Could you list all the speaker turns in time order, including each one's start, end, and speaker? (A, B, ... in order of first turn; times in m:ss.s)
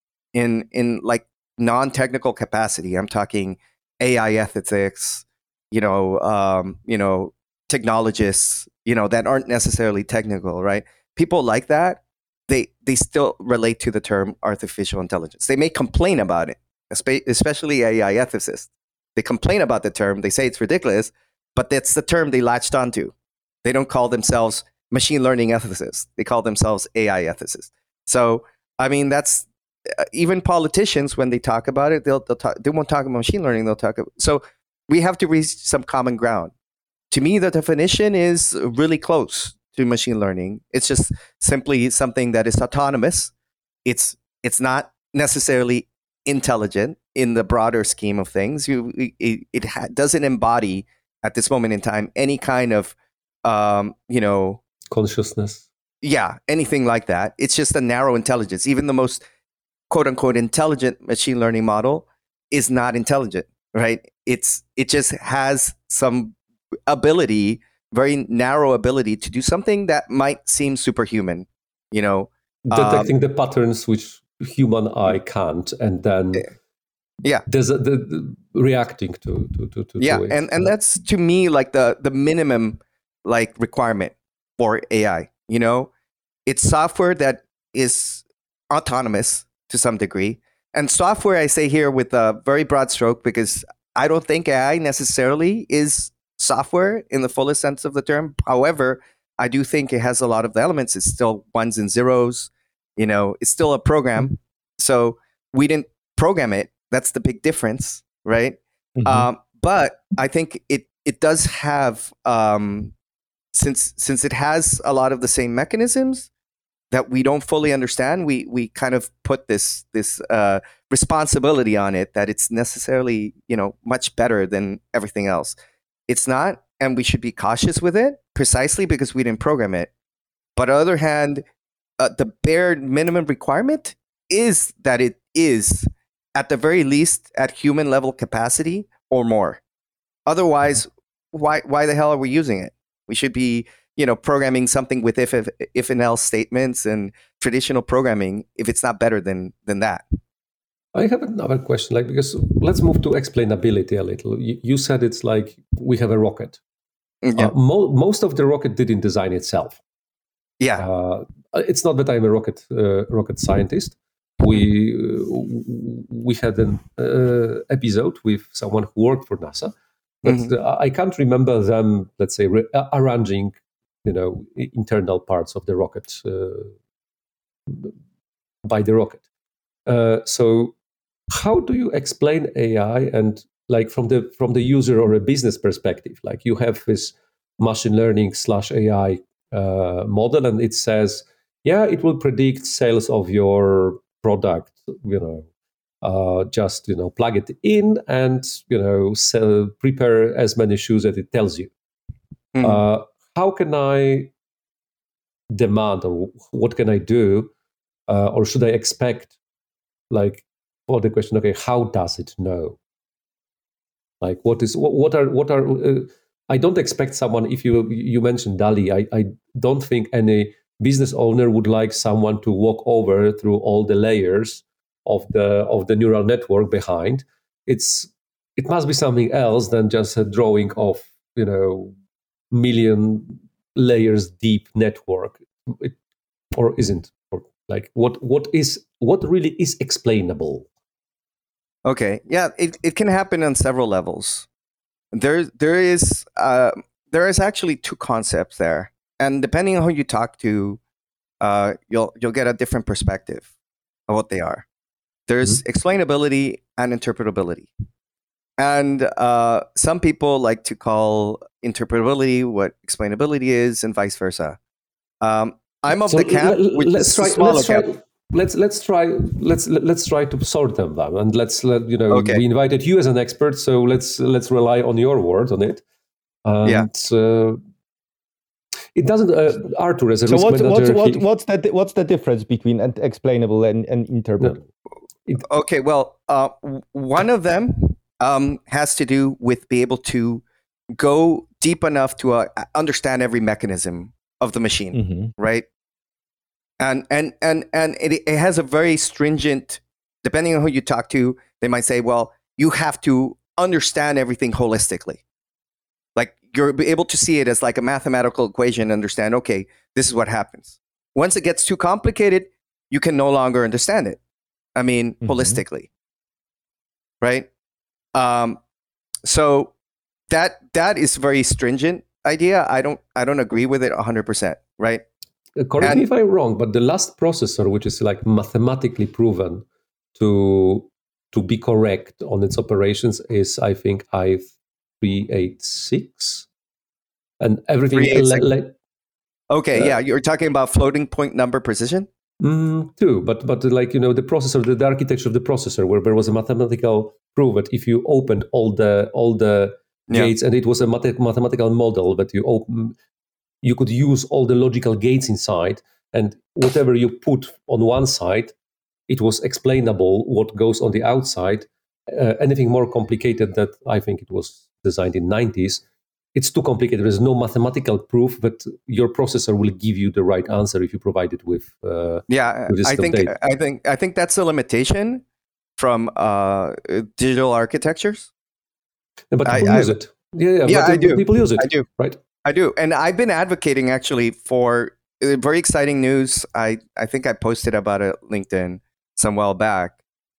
0:00.3-0:36.5 A
0:37.1-0:43.3 A
0:43.8-0:54.6 A
0:54.9-0:55.6 B
0:56.0-0:59.2 A
0:59.9-1:06.4 A
1:06.9-1:13.1 A
1:12.7-1:16.5 B
1:17.5-1:20.7 B
1:20.0-1:25.9 A
1:26.4-1:52.9 A
1:49.0-1:49.3 C
1:53.5-1:56.3 A
1:56.9-2:05.6 A
2:06.1-2:09.9 A
2:10.6-2:11.4 A
2:12.0-2:19.6 A
2:20.3-2:30.0 A
2:30.9-2:36.6 B
2:37.2-2:37.5 A
2:37.4-2:39.8 B
2:40.8-2:56.7 B
2:50.2-2:50.5 A
2:57.7-2:57.9 B
2:58.7-2:59.2 B
2:59.8-3:00.7 B
3:01.3-3:15.5 B
3:16.0-3:21.7 B
3:22.5-3:22.8 A
3:22.6-3:24.3 B
3:25.5-3:27.5 B
3:28.1-3:29.3 B
3:30.1-3:32.8 B
3:34.2-3:51.9 B
3:52.5-3:56.0 B
3:56.5-4:00.7 B
4:01.8-4:04.5 A
4:05.1-4:10.8 A
4:11.4-4:13.5 A
4:14.1-4:14.6 A
4:15.3-4:17.7 A
4:18.6-4:24.6 A
4:25.2-4:27.9 A
4:26.1-4:35.8 B
4:32.1-4:32.4 A
4:36.4-4:37.6 B
4:38.9-4:41.2 B
4:40.3-4:44.6 C
4:45.4-4:50.4 A
4:50.9-4:55.6 A
4:54.9-4:55.3 C
4:56.8-5:05.2 A
5:06.2-5:14.2 A
5:14.8-5:15.9 A
5:15.2-5:15.6 C
5:17.2-5:17.5 A
5:18.1-5:18.6 A
5:19.2-5:19.7 A
5:20.3-5:25.0 A
5:25.6-5:29.6 B
5:30.2-5:36.5 B
5:37.4-5:38.7 B
5:37.9-5:38.5 A
5:39.5-5:42.1 A
5:42.4-5:53.0 B
5:53.6-5:58.5 B
5:59.1-6:05.8 B
6:06.3-6:13.3 B
6:12.3-6:15.2 A
6:15.8-6:18.3 A
6:19.3-6:22.2 B
6:19.4-6:19.9 A
6:20.6-6:21.8 A
6:22.4-6:30.0 A